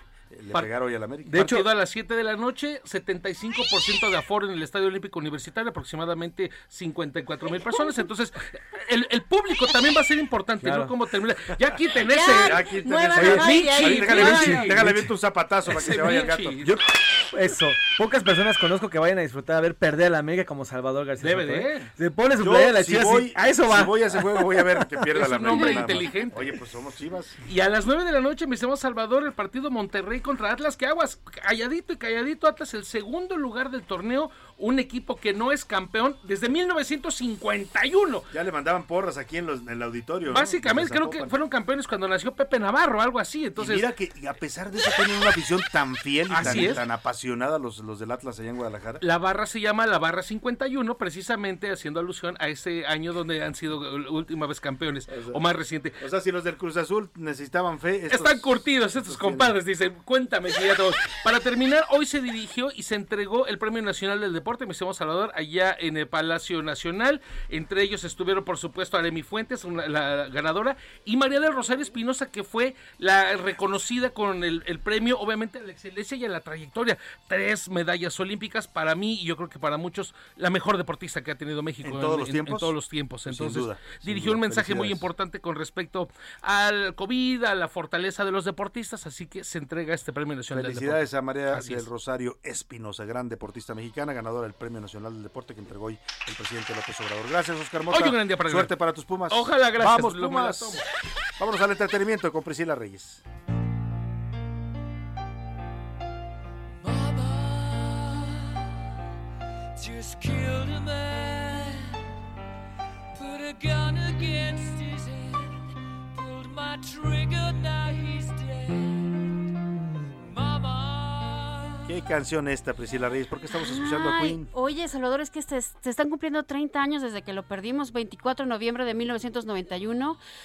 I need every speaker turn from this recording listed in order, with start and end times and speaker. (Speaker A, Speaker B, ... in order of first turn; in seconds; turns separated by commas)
Speaker A: 0.3-1.6, Speaker B: 1.3-1.7, Speaker C: 1.4-12.6, Speaker B: 10.6-11.0, Speaker D: 12.1-14.6, Speaker A: 12.1-16.6, Speaker B: 13.2-13.5, Speaker C: 13.2-14.9, Speaker B: 14.1-15.1, Speaker C: 15.7-16.7, Speaker B: 16.6-24.6, Speaker C: 21.2-21.9, Speaker A: 22.4-27.4, Speaker C: 25.1-26.5, Speaker C: 27.5-38.2, Speaker A: 38.3-41.3, Speaker C: 40.3-43.8, Speaker A: 43.5-49.0, Speaker C: 46.3-46.8, Speaker C: 49.0-56.0, Speaker A: 55.1-55.4, Speaker A: 56.0-59.5, Speaker C: 58.1-91.8, Speaker A: 81.8-85.1, Speaker A: 90.5-100.8, Speaker C: 97.9-98.8, Speaker C: 99.3-100.8, Speaker A: 101.4-103.2, Speaker E: 106.8-108.6, Speaker E: 109.8-112.0, Speaker E: 113.2-119.4, Speaker E: 120.2-121.9, Speaker A: 121.9-124.5, Speaker D: 123.5-130.2